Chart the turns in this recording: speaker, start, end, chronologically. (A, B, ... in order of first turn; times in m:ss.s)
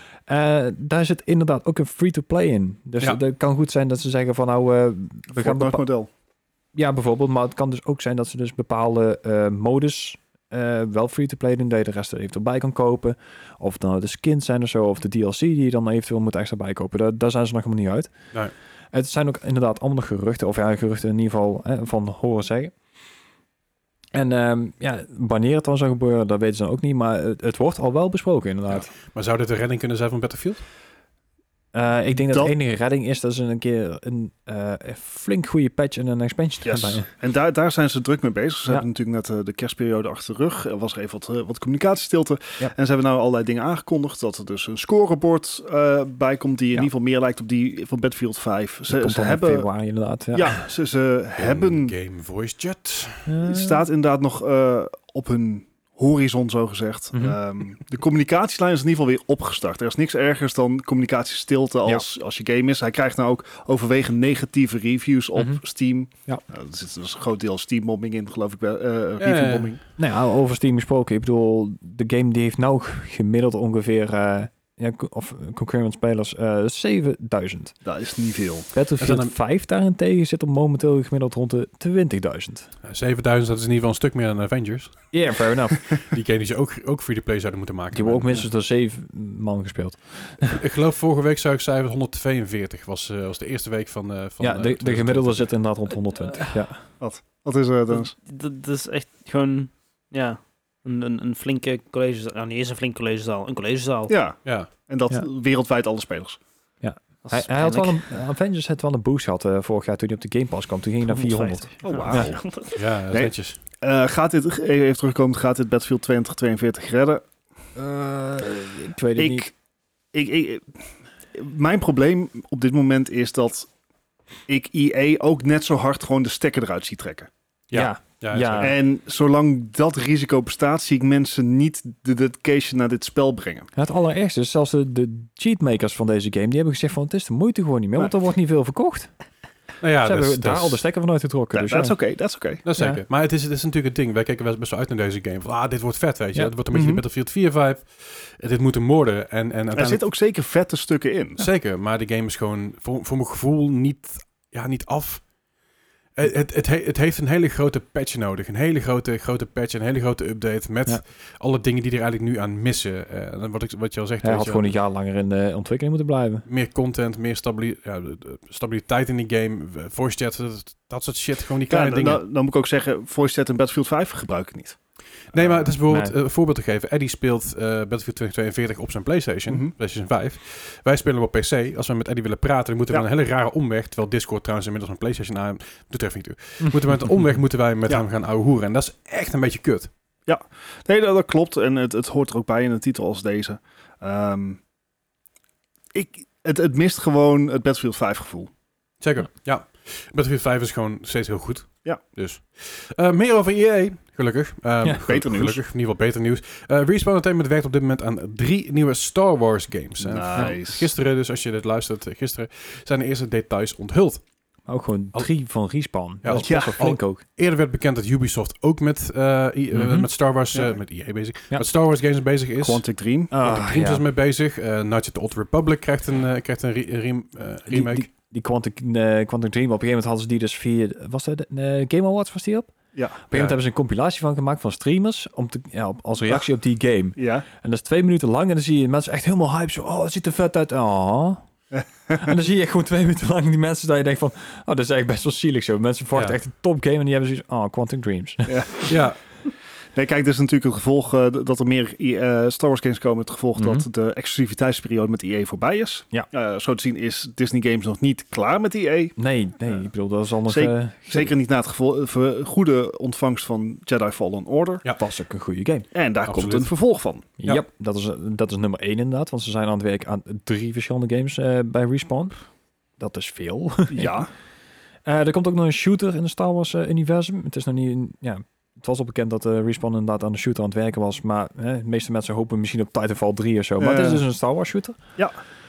0:00.3-0:05.8 A
0:05.4-0:06.1 B
0:06.7-0:18.1 A
0:18.9-0:22.7 A
0:24.1-0:28.9 A
0:28.7-0:30.6 C
0:31.7-0:37.0 A
0:36.6-0:49.7 B
0:48.9-0:50.6 A
0:50.3-0:51.9 B
0:51.4-0:53.3 C
0:53.3-0:53.8 A
0:53.4-1:09.8 B
0:57.1-0:57.4 A
1:05.4-1:05.6 A
1:09.2-1:09.8 C
1:10.0-1:17.7 A
1:17.8-1:18.7 B
1:18.7-1:22.7 A
1:19.0-1:19.3 C
1:22.8-1:25.0 C
1:25.1-1:25.9 A
1:26.0-1:28.4 C
1:27.9-1:30.6 A
1:30.5-1:35.5 C
1:34.4-1:36.8 A
1:37.0-1:38.1 B
1:37.9-1:44.1 D
1:44.1-1:46.4 B
1:44.4-1:44.7 C
1:46.8-1:52.4 A
1:47.2-1:48.0 D
1:51.1-1:52.7 D
1:51.8-1:52.4 B
1:52.7-1:53.6 C
1:53.1-1:57.2 B
1:57.8-1:59.5 A
1:59.2-1:59.5 B
2:00.1-2:00.8 B
2:01.3-2:03.7 B
2:04.5-2:07.3 B
2:07.7-2:08.7 C
2:07.7-2:08.8 A
2:08.6-2:13.7 B
2:13.7-2:19.1 A
2:19.8-2:20.8 C
2:20.0-2:22.0 A
2:21.5-2:22.6 B
2:22.6-2:30.0 C
2:22.8-2:23.0 A
2:26.7-2:27.0 B
2:29.7-2:31.4 B
2:31.4-2:35.3 C
2:36.1-2:44.7 C
2:44.2-2:46.4 A
2:46.5-2:52.2 C
2:51.7-2:54.8 B
2:55.3-3:09.9 C
2:55.8-2:56.1 A
2:59.5-2:59.7 B
3:10.2-3:14.6 B
3:15.9-3:18.5 B
3:19.0-3:34.2 C
3:25.0-3:25.6 B
3:30.0-3:30.9 B
3:34.7-3:37.2 A
3:36.2-3:42.8 C
3:36.4-3:36.8 B
3:39.7-3:40.1 A
3:42.6-3:43.3 B
3:43.3-3:44.0 A
3:43.3-3:48.1 C
3:47.7-3:52.7 A
3:53.3-4:01.4 A
3:53.3-3:53.6 C
3:57.2-3:57.4 B
4:01.7-4:02.2 B
4:02.1-4:08.6 A
4:08.5-4:08.9 B
4:08.8-4:09.2 C
4:09.9-4:19.1 B
4:13.6-4:13.9 A
4:19.2-4:21.3 A
4:20.5-4:24.8 B
4:25.0-4:25.9 A
4:25.9-4:27.3 B
4:26.2-4:26.7 C
4:27.4-4:32.3 A
4:33.0-4:34.2 A
4:33.9-4:34.3 B
4:35.0-4:45.0 A
4:43.8-4:44.2 B